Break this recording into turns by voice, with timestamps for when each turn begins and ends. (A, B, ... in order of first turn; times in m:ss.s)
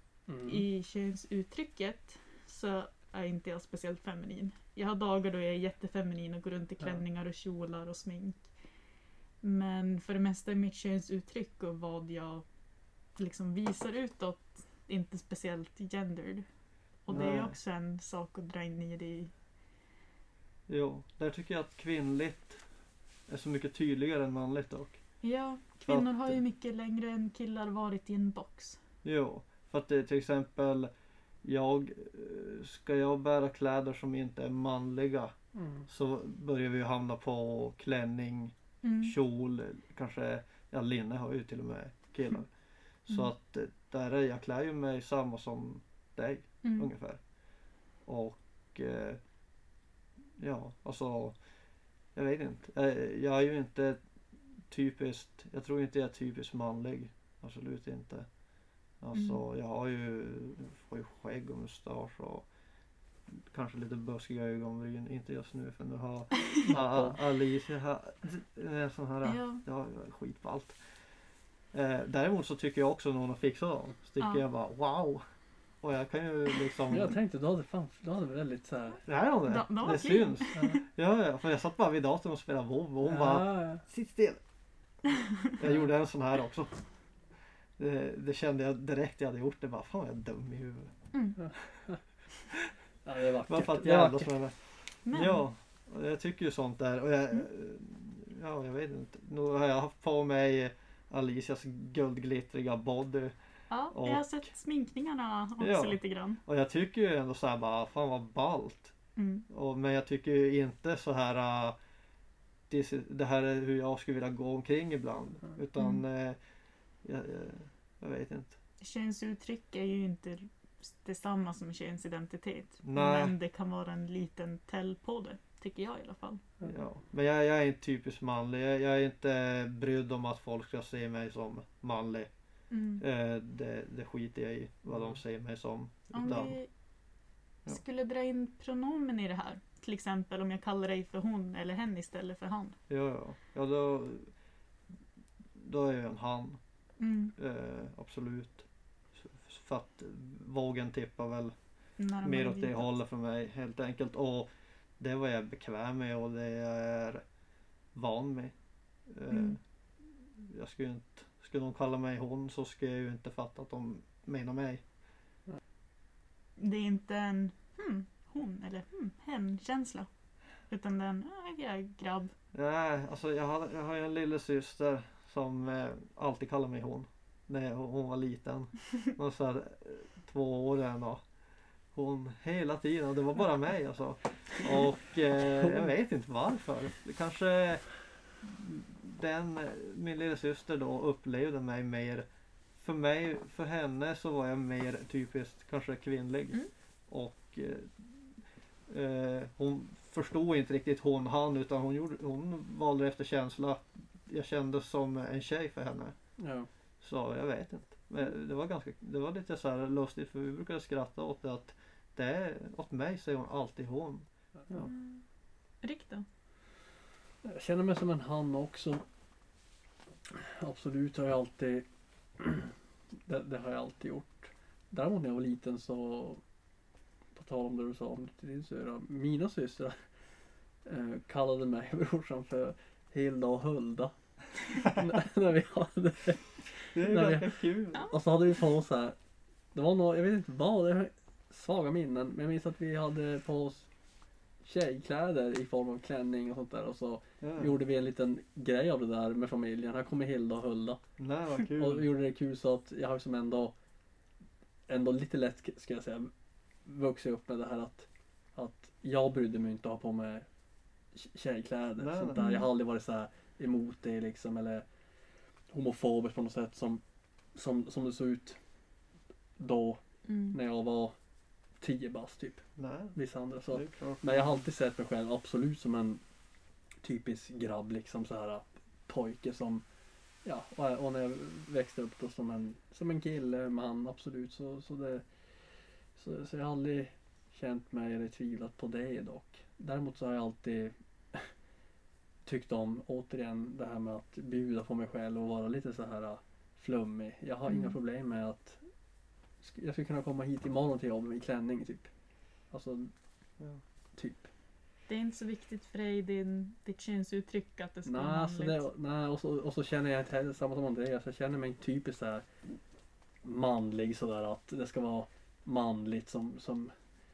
0:00.3-0:00.6 A
0:00.4-0:08.4 B
0:09.4-0:12.4 B
0:13.2-0:16.4 B
0:17.0-0:19.3 B
0:17.1-0:17.5 C
0:20.7-0:22.6 C
0:23.3-0:25.0 C
0:25.2-0:28.8 B
0:25.8-0:26.4 C
0:29.0-0:30.9 C
0:31.4-0:35.3 C
0:35.5-0:35.9 A
0:35.9-0:47.2 C
0:38.8-0:39.1 B
0:46.6-0:46.9 B
0:48.0-0:49.2 C
0:50.4-0:51.5 C
0:52.1-0:54.0 C
0:54.6-0:58.3 C
0:59.0-1:02.5 C
0:59.1-0:59.4 B
1:03.3-1:10.8 C
1:06.6-1:07.2 A
1:09.2-1:09.6 B
1:11.7-1:15.2 C
1:15.8-1:17.2 C
1:16.9-1:19.0 A
1:19.0-1:24.4 C
1:19.5-1:20.8 B
1:20.5-1:20.8 A
1:23.0-1:23.8 A
1:25.6-1:26.7 C
1:25.6-1:25.9 A
1:27.8-1:30.9 C
1:31.1-1:31.4 B
1:31.4-1:32.0 A
1:33.0-1:34.3 A
1:33.5-1:43.3 C
1:35.0-1:35.4 B
1:43.7-1:46.4 B
1:43.9-1:44.4 C
1:45.6-1:48.9 C
1:49.2-1:49.4 B
1:49.5-1:51.8 C
1:52.7-1:56.4 C
1:55.8-1:56.0 B
1:57.0-1:58.6 C
1:58.8-2:06.4 B
2:02.8-2:03.3 C
2:06.6-2:16.6 C
2:12.7-2:13.0 B
2:14.9-2:15.2 A
2:16.1-2:16.7 B
2:17.7-2:22.8 B
2:22.9-2:24.3 C
2:25.6-2:26.6 C
2:27.0-2:27.3 B
2:27.4-2:31.6 C
2:32.0-2:32.9 B
2:32.2-2:37.2 C
2:37.9-2:44.8 C
2:39.3-2:39.6 B
2:46.6-2:50.1 B
2:50.6-2:52.3 B
2:52.5-3:01.2 C
3:01.9-3:26.2 C
3:05.6-3:05.9 A
3:26.4-3:26.7 A
3:27.0-3:34.9 C
3:34.8-3:35.2 B
3:35.8-3:36.2 B
3:37.4-3:39.0 A
3:40.3-3:46.4 A
3:47.3-3:50.0 A
3:50.8-3:54.1 A
3:54.7-3:59.1 A
3:56.9-3:58.1 C
3:59.7-4:03.9 A
4:04.6-4:11.1 A
4:07.4-4:07.7 C
4:11.2-4:12.0 C
4:11.7-4:13.7 A
4:14.9-4:16.3 A
4:16.8-4:20.5 A
4:21.1-4:24.8 A
4:22.0-4:22.4 C
4:22.4-4:22.7 B
4:25.7-4:27.0 A
4:27.5-4:28.6 A
4:29.6-4:31.1 A
4:30.2-4:30.6 B
4:31.8-4:36.2 A
4:32.8-4:33.2 C
4:33.7-4:34.6 C
4:37.0-4:39.8 A
4:40.4-4:45.2 A
4:46.1-4:51.5 A
4:52.4-4:58.8 A
4:57.7-4:58.0 B
4:59.6-5:02.1 A
5:02.7-5:03.1 A
5:04.2-5:04.5 A
5:05.1-5:08.8 B
5:08.0-5:12.4 A
5:13.4-5:16.9 A